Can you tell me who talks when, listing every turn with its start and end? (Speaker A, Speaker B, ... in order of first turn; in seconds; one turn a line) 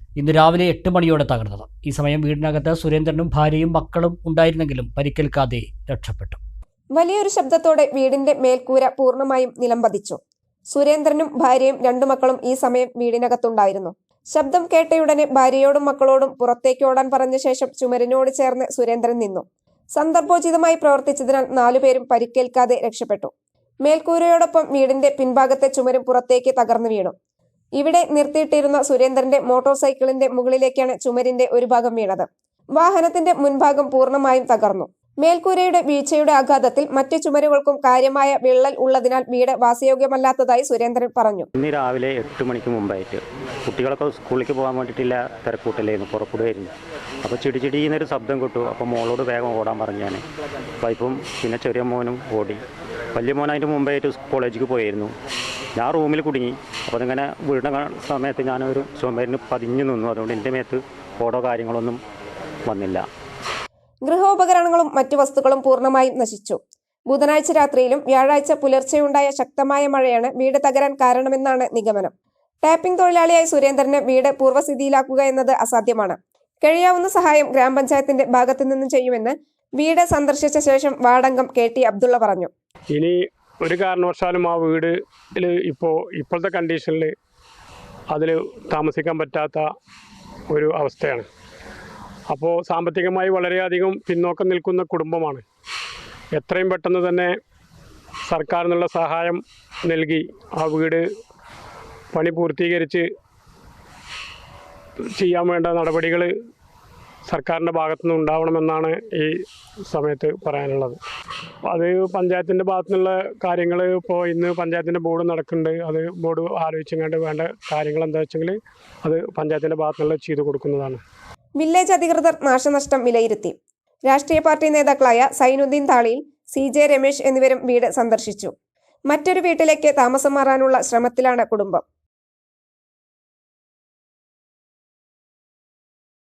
Speaker A: 0.2-6.4
Speaker B: 6.9-10.2
Speaker B: 10.7-23.3
Speaker B: 23.8-27.1
Speaker B: 27.8-41.5
Speaker C: 41.5-50.2
Speaker C: 50.8-52.6
Speaker C: 53.1-55.1
Speaker C: 55.7-62.0
Speaker C: 62.7-63.0
Speaker B: 64.0-72.1
Speaker B: 72.6-82.5
Speaker D: 82.9-87.1
Speaker D: 88.1-89.6
Speaker D: 90.5-91.3
Speaker D: 92.3-95.4
Speaker D: 96.3-97.3
Speaker D: 98.3-101.0
Speaker D: 102.1-103.0
Speaker D: 105.2-106.3
Speaker D: 107.3-111.0
Speaker D: 111.7-121.0
Speaker B: 121.6-128.5
Speaker B: 129.1-131.8